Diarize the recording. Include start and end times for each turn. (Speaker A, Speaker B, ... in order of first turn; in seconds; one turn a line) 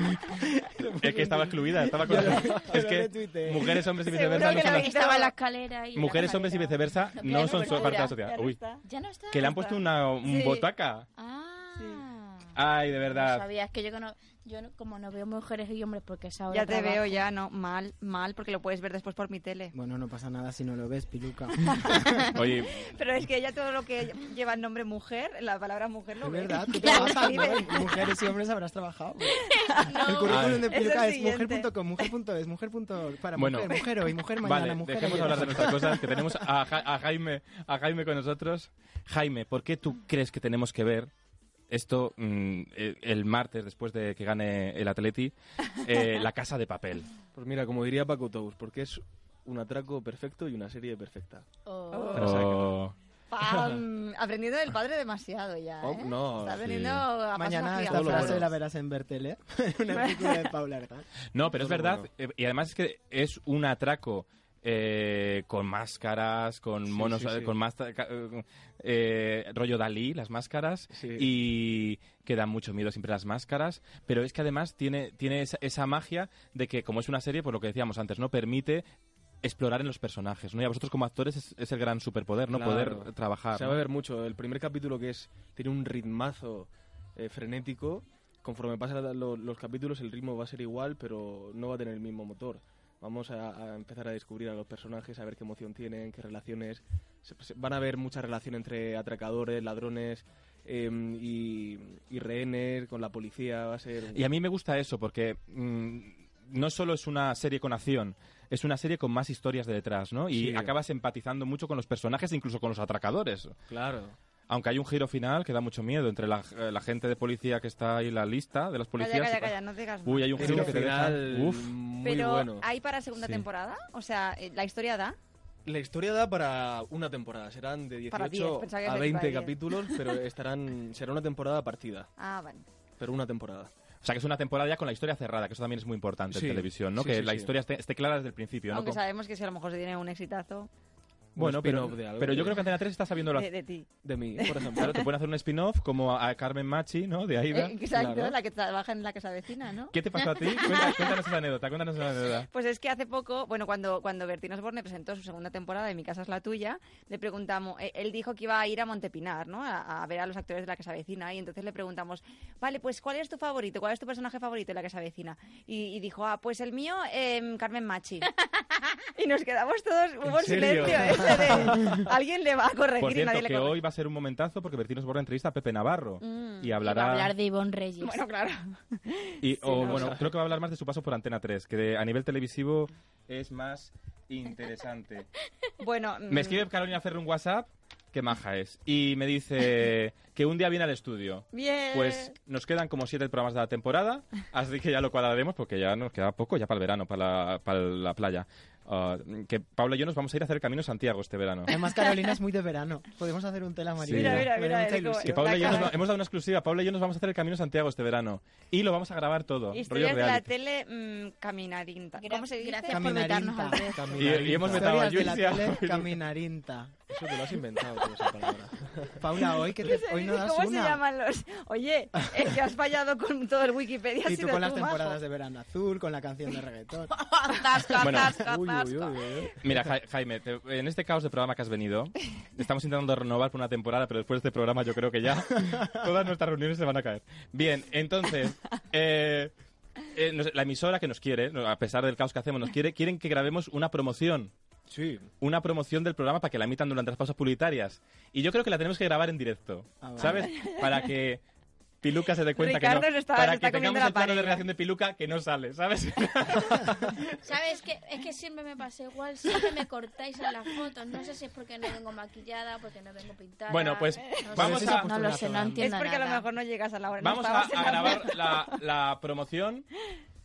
Speaker A: 0.8-3.9
Speaker B: 1.0-5.0
Speaker C: 2.1-2.4
Speaker D: 4.0-5.3
Speaker E: 4.2-8.2
Speaker B: 5.9-8.6
Speaker D: 7.3-10.7
Speaker E: 8.8-9.5
Speaker B: 9.3-11.1
Speaker E: 11.2-12.6
Speaker D: 11.8-12.0
Speaker B: 12.6-13.4
Speaker E: 13.1-17.2
Speaker D: 16.5-19.7
Speaker A: 19.7-22.1
Speaker D: 21.7-22.0
Speaker B: 22.4-22.9
Speaker D: 22.8-28.1
Speaker A: 26.2-36.1
Speaker E: 26.9-27.5
Speaker D: 29.6-31.7
Speaker E: 29.8-30.4
Speaker B: 30.3-30.7
Speaker B: 33.4-33.8
Speaker B: 34.4-41.1
Speaker B: 41.7-47.1
Speaker C: 47.3-51.5
Speaker E: 51.7-52.3
Speaker D: 51.9-52.4
Speaker B: 52.1-52.9
Speaker C: 52.2-52.8
Speaker D: 53.3-58.5
Speaker C: 53.5-53.8
Speaker C: 55.8-57.1
Speaker A: 57.4-61.1
Speaker C: 57.9-58.5
Speaker D: 59.9-60.4
Speaker B: 61.3-78.8
Speaker C: 61.6-62.1
Speaker C: 66.9-67.5
Speaker C: 70.9-71.3
Speaker B: 79.4-83.8
Speaker C: 82.5-104.2
Speaker B: 104.1-113.6
Speaker C: 110.3-110.8
Speaker C: 113.7-114.2
Speaker B: 114.5-121.7
Speaker D: 119.0-120.8
Speaker C: 120.3-123.4
Speaker D: 122.0-125.2
Speaker C: 125.7-132.1
Speaker D: 128.1-130.1
Speaker D: 132.2-132.7
Speaker C: 133.0-133.7
Speaker B: 134.0-139.0
Speaker C: 136.3-137.5
Speaker D: 138.7-140.7
Speaker C: 141.4-142.8
Speaker B: 141.4-143.5
Speaker D: 143.3-145.0
Speaker C: 144.0-145.0
Speaker B: 144.8-147.8
Speaker D: 147.5-150.0
Speaker C: 147.9-148.4
Speaker B: 149.9-152.5
Speaker D: 152.5-168.3
Speaker D: 169.2-173.8
Speaker C: 170.2-172.1
Speaker B: 173.0-177.3
Speaker D: 176.2-176.8
Speaker E: 176.8-178.2
Speaker D: 178.0-180.2
Speaker B: 179.4-185.3
Speaker C: 179.8-180.3
Speaker D: 185.8-186.7
Speaker B: 186.3-201.7
Speaker D: 191.5-192.3
Speaker A: 201.7-206.0
Speaker B: 204.0-204.5
Speaker D: 204.1-206.0
Speaker B: 205.2-210.5
Speaker D: 209.7-213.3
Speaker E: 212.2-214.5
Speaker A: 212.9-214.0
Speaker C: 213.9-215.3
Speaker B: 214.2-216.2
Speaker A: 214.7-216.9
Speaker C: 217.1-219.2
Speaker A: 219.2-221.0
Speaker D: 219.7-225.2
Speaker A: 224.2-227.2
Speaker E: 227.1-229.5
Speaker B: 228.0-228.4
Speaker C: 228.4-229.9
Speaker B: 229.6-239.5
Speaker B: 240.1-244.5
Speaker C: 244.9-245.3
Speaker B: 245.4-251.4
Speaker A: 250.0-250.5
Speaker D: 250.2-250.9
Speaker B: 252.0-257.3
Speaker D: 252.6-254.6
Speaker E: 257.4-266.5
Speaker B: 263.7-265.1
Speaker A: 264.6-265.9
Speaker D: 265.8-268.8
Speaker B: 267.2-269.9